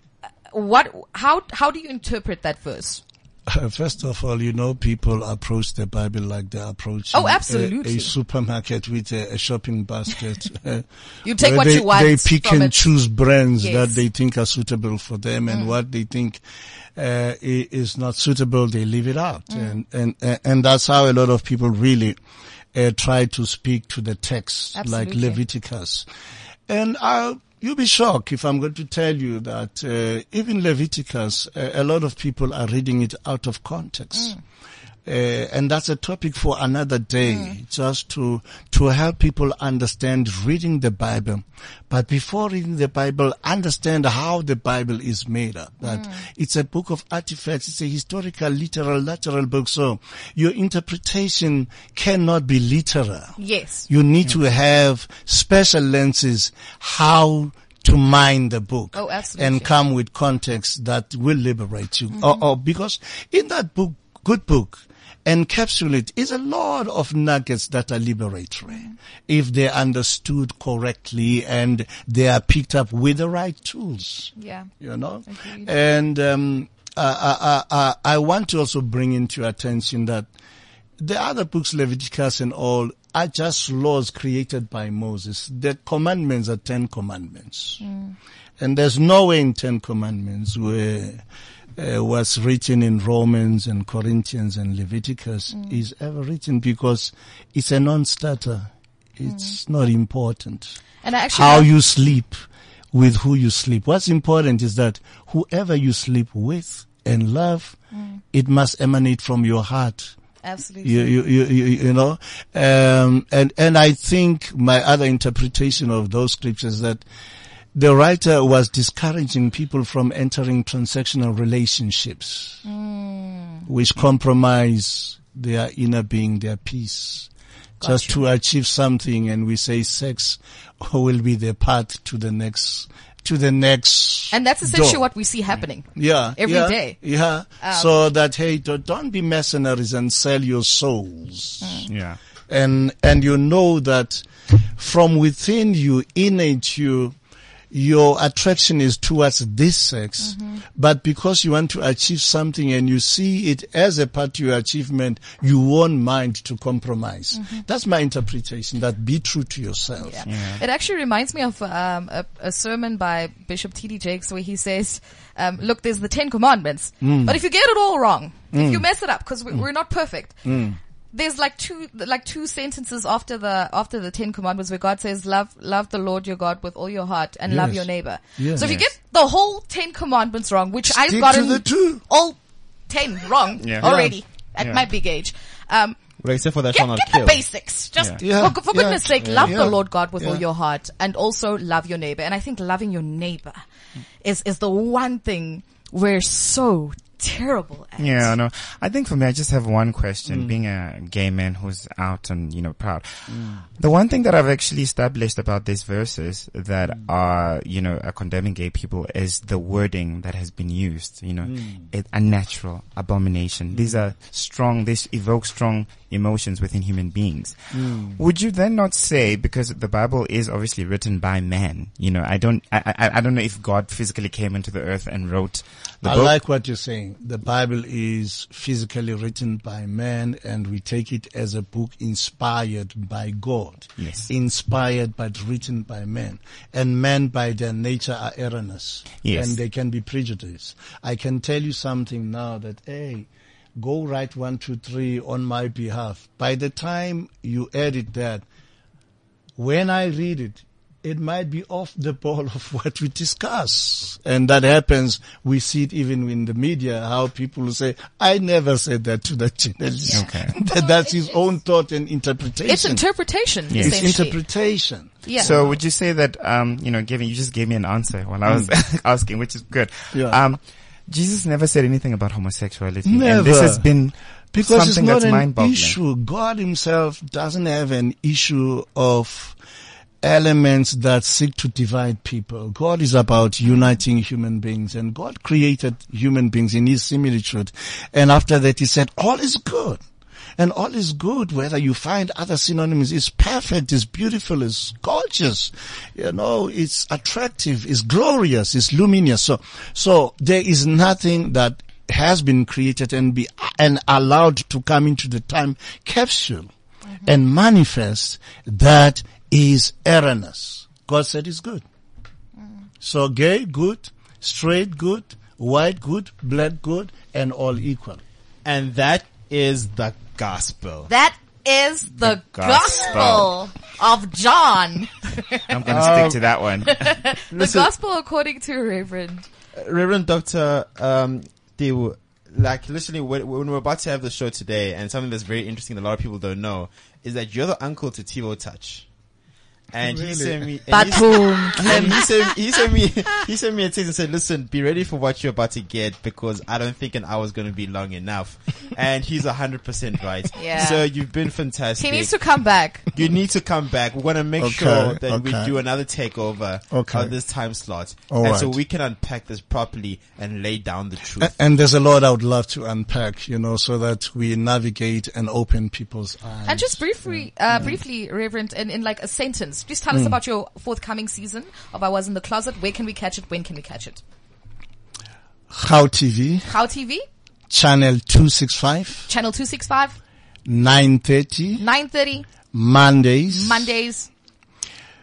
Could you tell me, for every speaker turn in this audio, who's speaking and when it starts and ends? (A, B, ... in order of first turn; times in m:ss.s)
0:00.5-0:03.0 A
0:03.5-0:16.4 B
0:07.1-0:08.1 A
0:11.2-0:12.9 A
0:13.6-0:14.0 A
0:15.5-0:15.8 A
0:17.0-0:22.2 B
0:19.5-0:19.8 A
0:22.7-0:26.0 B
0:24.7-0:25.4 A
0:26.7-0:34.4 B
0:34.1-0:34.4 A
0:35.0-0:53.3 B
0:37.2-0:37.6 A
0:45.8-0:46.2 A
0:53.4-0:53.9 A
0:53.9-1:20.3 B
0:58.9-0:59.7 A
1:08.7-1:08.9 A
1:14.4-1:14.7 A
1:15.3-1:15.7 A
1:21.0-1:27.8 B
1:27.8-1:28.1 A
1:28.6-1:31.2 B
1:31.8-1:40.8 B
1:39.2-1:39.5 A
1:41.0-1:41.7 A
1:41.3-1:47.8 B
1:48.3-1:50.1 B
1:50.4-1:51.1 A
1:50.8-1:57.0 B
1:57.7-2:02.6 B
2:02.6-2:03.7 A
2:03.6-2:07.3 B
2:07.8-2:08.2 A
2:07.8-2:15.0 B
2:14.3-2:17.0 A
2:15.9-2:21.8 B
2:17.6-2:18.0 A
2:21.6-2:21.9 A
2:21.9-2:22.2 C
2:22.5-2:27.1 B
2:27.7-2:40.3 B
2:30.2-2:30.5 A
2:37.3-2:37.6 A
2:40.0-2:50.4 A
2:40.2-2:40.6 C
2:47.0-2:47.4 B
2:48.5-2:48.8 B
2:50.4-2:50.8 B
2:51.1-3:06.0 A
2:57.5-2:58.8 B
3:00.8-3:02.0 B
3:03.6-3:03.9 C
3:03.8-3:04.2 B
3:06.2-3:07.4 D
3:06.7-3:13.6 A
3:08.2-3:10.4 B
3:14.2-3:18.4 A
3:18.0-3:46.4 C
3:20.2-3:20.6 B
3:23.3-3:23.6 B
3:31.4-3:31.9 B
3:33.7-3:34.0 B
3:37.7-3:38.2 B
3:46.0-4:08.4 B
3:54.0-3:54.3 C
3:59.2-3:59.6 C
4:09.6-4:23.0 B
4:20.0-4:21.4 A
4:20.1-4:20.6 C
4:22.6-4:24.4 A
4:23.7-4:24.1 C
4:23.7-4:25.8 B
4:25.2-4:25.6 A
4:25.4-4:36.0 C
4:30.1-4:30.4 B
4:33.0-4:33.9 B
4:34.5-4:39.6 B
4:40.2-4:50.0 B
4:50.6-5:06.7 B
5:07.2-5:11.8 B
5:13.0-5:18.2 B
5:18.6-5:21.1 D
5:21.1-5:26.2 A
5:22.2-5:23.5 C
5:25.7-5:27.2 C
5:25.9-5:26.4 D
5:26.8-5:29.4 A
5:27.5-5:27.9 D
5:29.7-5:39.1 D
5:39.9-5:52.3 D
5:40.0-5:41.1 B
5:40.9-5:42.5 A
5:50.6-5:51.0 A
5:52.0-5:53.1 A
5:53.1-6:01.5 D
5:54.6-5:55.7 B
5:56.9-5:57.3 B
5:58.3-5:58.8 B
6:01.4-6:08.0 B
6:06.6-6:14.2 A
6:10.1-6:10.4 B
6:15.7-6:16.7 B
6:16.6-6:17.2 A
6:17.7-6:19.3 B
6:19.3-6:20.2 A
6:20.6-6:21.8 B
6:21.8-6:22.5 A
6:22.6-6:23.9 B
6:23.5-6:24.3 A